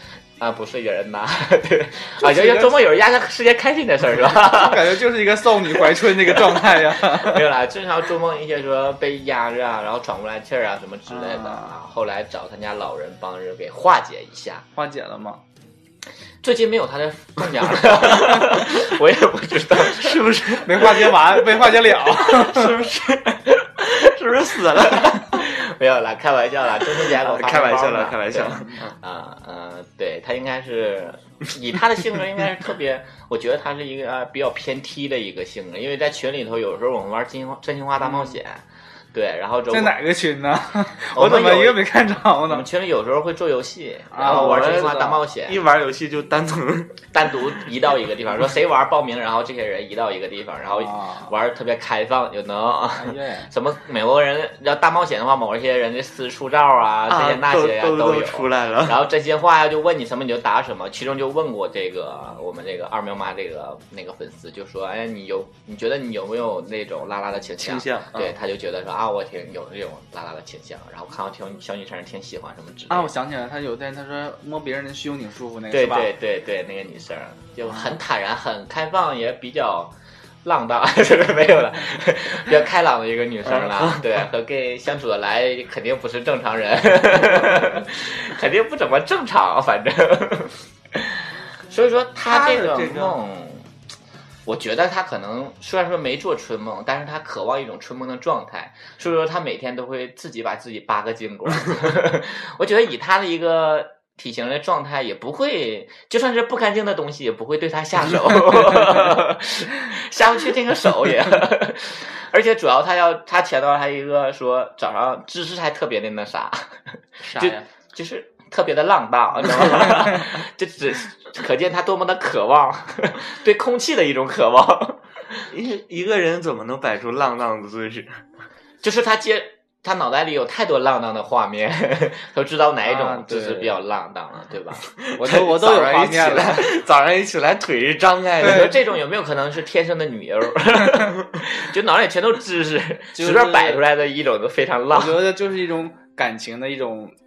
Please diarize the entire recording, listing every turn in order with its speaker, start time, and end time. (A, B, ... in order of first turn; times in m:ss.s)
0:00.4-0:05.0 A
0:02.2-0:02.8 B
0:04.4-0:07.4 B
0:05.7-0:14.6 A
0:11.1-0:11.7 B
0:14.8-0:15.4 B
0:16.4-0:20.2 A
0:19.8-0:21.0 C
0:20.6-0:22.7 B
0:22.2-0:25.4 C
0:24.8-0:40.0 A
0:27.2-0:29.0 C
0:39.7-0:42.7 B
0:41.1-0:41.9 A
0:42.5-0:45.6 A
0:44.1-0:45.1 B
0:44.2-0:47.0 C
0:47.1-1:13.1 A
0:50.8-0:51.3 B
0:53.0-0:53.5 B
0:57.1-0:59.0 C
1:07.6-1:08.3 C
1:12.9-1:16.1 B
1:15.7-1:19.9 A
1:20.4-1:33.7 A
1:23.5-1:24.1 C
1:32.3-1:33.2 C
1:34.5-1:56.7 A
1:57.2-1:57.7 C
1:57.4-2:05.4 A
2:05.5-2:08.2 C
2:08.8-2:14.9 A
2:12.9-2:13.8 B
2:15.0-2:18.8 C
2:15.2-2:16.7 B
2:18.4-2:25.3 A
2:18.4-2:18.7 B
2:23.1-2:23.8 B
2:24.9-2:27.2 B